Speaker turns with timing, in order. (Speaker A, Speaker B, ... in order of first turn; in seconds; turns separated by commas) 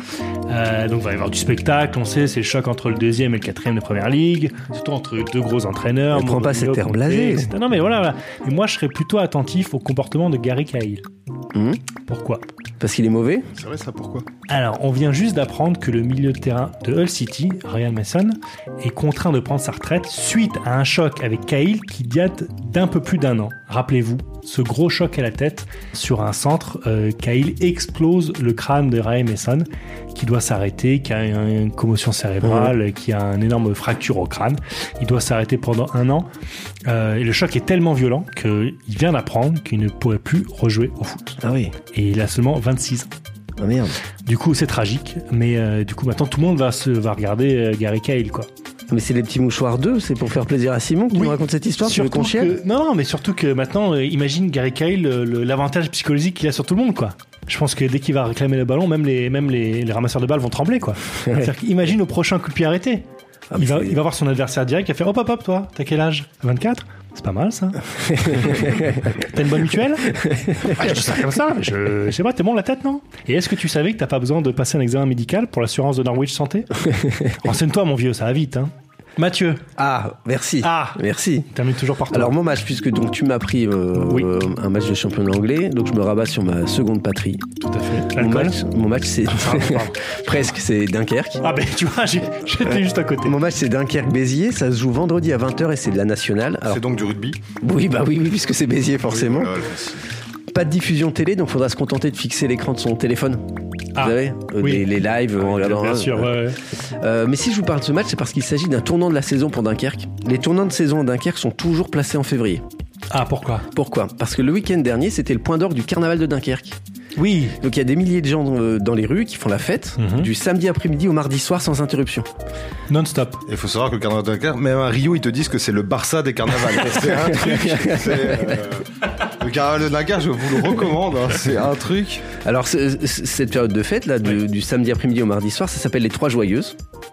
Speaker A: 0.5-11.0, Speaker B: 6.1-7.5, Speaker B: 11.5-11.8, Speaker A: 12.1-12.4, Speaker B: 12.8-13.5, Speaker C: 13.6-14.3, Speaker A: 14.5-36.3, Speaker B: 32.4-32.7, Speaker A: 36.9-41.4, Speaker B: 41.4-41.8, Speaker A: 41.9-43.1, Speaker B: 43.6-44.0, Speaker A: 44.3-48.5, Speaker B: 48.9-52.6, Speaker A: 51.1-63.0, Speaker B: 63.5-64.0, Speaker A: 63.6-67.8, Speaker B: 68.3-68.8, Speaker A: 68.3-76.7, Speaker A: 77.3-79.7, Speaker B: 79.8-81.5, Speaker A: 80.6-81.0, Speaker A: 81.5-82.3, Speaker B: 82.1-87.5, Speaker A: 87.6-88.6, Speaker B: 88.2-91.4, Speaker A: 89.3-90.0, Speaker A: 91.4-93.4, Speaker B: 93.2-96.8, Speaker C: 96.7-97.4, Speaker B: 97.6-99.5, Speaker C: 99.0-100.0, Speaker B: 100.5-103.5, Speaker A: 104.0-106.6, Speaker B: 104.0-106.3, Speaker B: 107.0-112.6, Speaker A: 113.1-113.7, Speaker B: 113.7-116.8, Speaker A: 117.2-117.6, Speaker B: 117.6-122.3, Speaker A: 120.0-120.3, Speaker A: 122.9-123.4, Speaker C: 123.5-132.2, Speaker B: 127.0-128.6, Speaker B: 132.4-136.8